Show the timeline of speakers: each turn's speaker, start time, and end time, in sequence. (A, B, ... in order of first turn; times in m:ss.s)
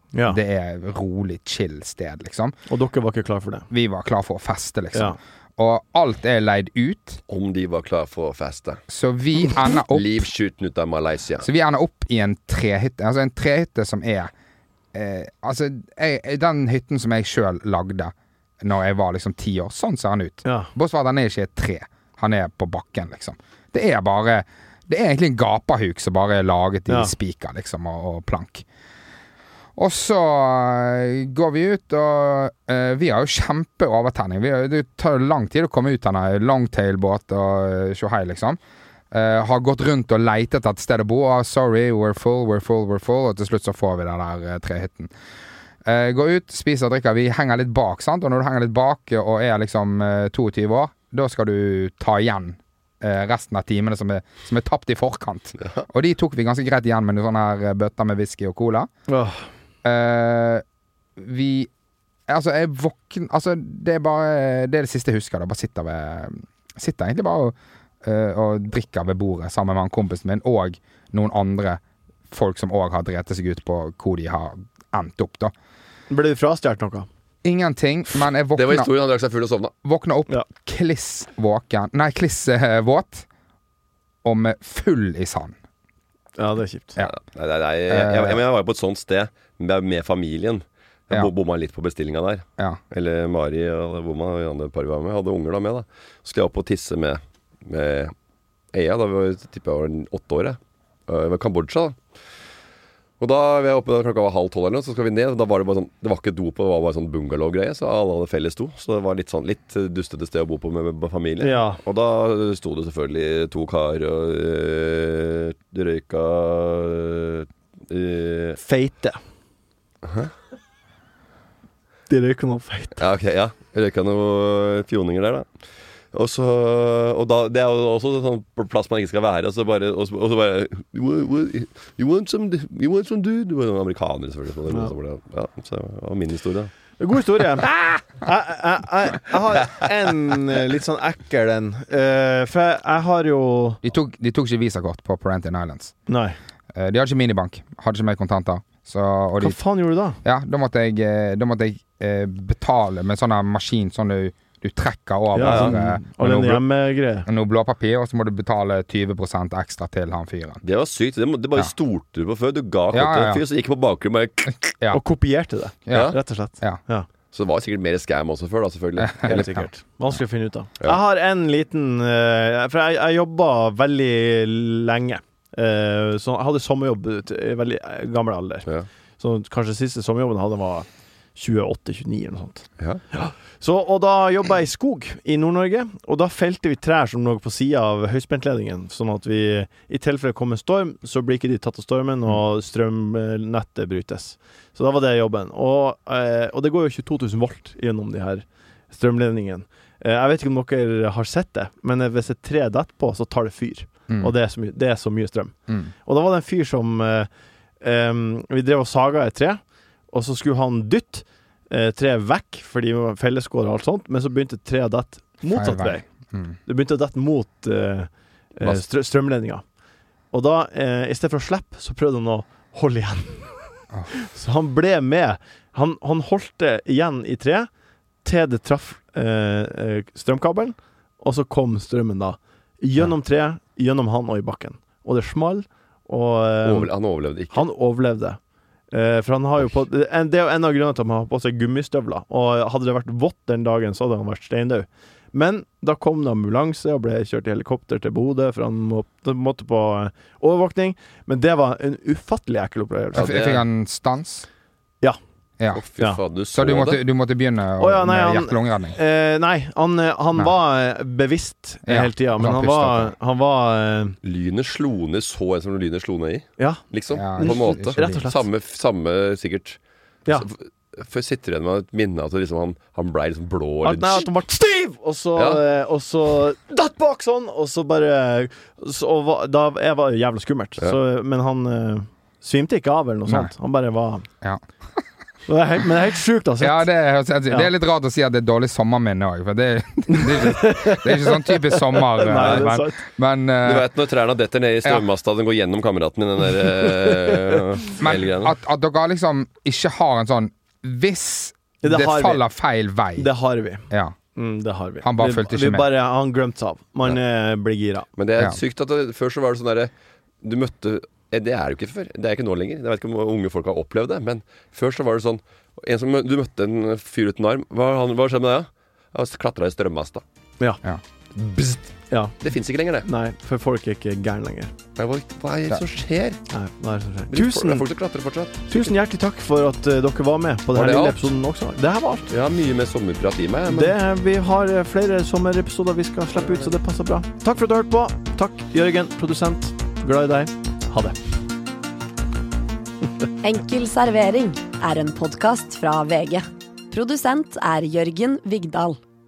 0:00.1-0:00.4 A
0:00.3-0:02.5 B
0:02.7-0:03.6 A
0:03.7-0:07.2 B
0:07.3-0:08.8 C
0:08.9-0:10.3 B
0:09.9-0:11.5 C
0:11.4-0:14.3 B
0:14.9-0:28.6 B
0:20.4-0:20.7 A
0:26.9-0:27.1 A
0:29.8-0:38.6 B
0:39.1-0:45.1 B
0:45.8-0:58.9 B
0:59.1-0:59.4 A
0:59.8-1:00.6 B
1:01.2-1:01.7 B
1:02.3-1:15.5 B
1:16.1-1:17.1 A
1:17.4-1:18.9 B
1:18.5-1:19.7 C
1:19.8-1:23.2 B
1:24.2-1:25.5 B
1:26.4-1:27.0 A
1:27.0-1:38.1 C
1:27.9-1:28.4 B
1:38.7-1:42.0 C
1:43.2-1:58.6 C
1:51.4-1:51.8 A
1:58.6-1:59.2 A
2:00.0-2:00.3 C
2:02.1-2:03.0 A
2:03.0-2:05.5 C
2:06.1-2:16.7 C
2:17.0-2:23.8 A
2:17.7-2:18.0 C
2:23.8-2:25.9 B
2:26.1-2:26.4 A
2:26.7-2:29.6 B
2:29.4-2:30.2 A
2:30.2-2:36.6 B
2:35.3-2:37.3 A
2:35.4-2:35.8 C
2:37.2-2:40.6 B
2:40.6-2:44.7 C
2:42.9-2:43.4 B
2:44.9-2:47.1 A
2:45.8-2:46.8 B
2:45.9-2:46.2 C
2:47.3-2:49.6 C
2:49.1-2:49.6 B
2:49.2-2:58.7 A
2:59.2-3:25.5 A
3:26.0-3:27.3 A
3:27.8-3:36.0 A
3:35.5-3:36.6 B
3:36.6-3:39.6 A
3:40.3-3:47.7 A
3:48.2-3:56.9 A
3:56.6-3:57.7 C
3:57.5-3:58.4 A
3:58.9-4:13.6 A
4:13.1-4:14.5 B
4:15.7-4:17.0 C
4:16.5-4:19.0 B
4:17.8-4:24.2 A
4:21.8-4:23.1 B
4:24.2-4:29.8 C
4:27.1-4:28.2 B
4:27.4-4:28.4 A
4:30.3-4:34.3 C
4:33.8-4:44.2 A
4:35.4-4:35.6 C
4:43.3-4:43.5 B
4:45.5-4:46.9 A
4:46.6-4:53.9 B
4:50.1-4:53.0 A
4:53.6-4:58.5 C
4:58.0-5:03.3 B
5:01.8-5:02.4 A
5:03.2-5:03.8 A
5:03.9-5:04.2 B
5:04.4-5:08.0 A
5:05.0-5:05.9 B
5:08.2-5:09.9 C
5:10.4-5:20.2 C
5:21.4-5:21.9 C
5:22.1-5:22.4 A
5:22.4-5:23.0 C
5:23.0-5:24.7 A
5:25.0-5:26.4 C
5:26.5-5:27.8 A
5:27.3-5:28.9 C
5:28.7-5:32.3 A
5:30.7-5:31.3 C
5:32.3-5:34.0 C
5:33.7-5:41.2 A
5:43.4-5:49.0 D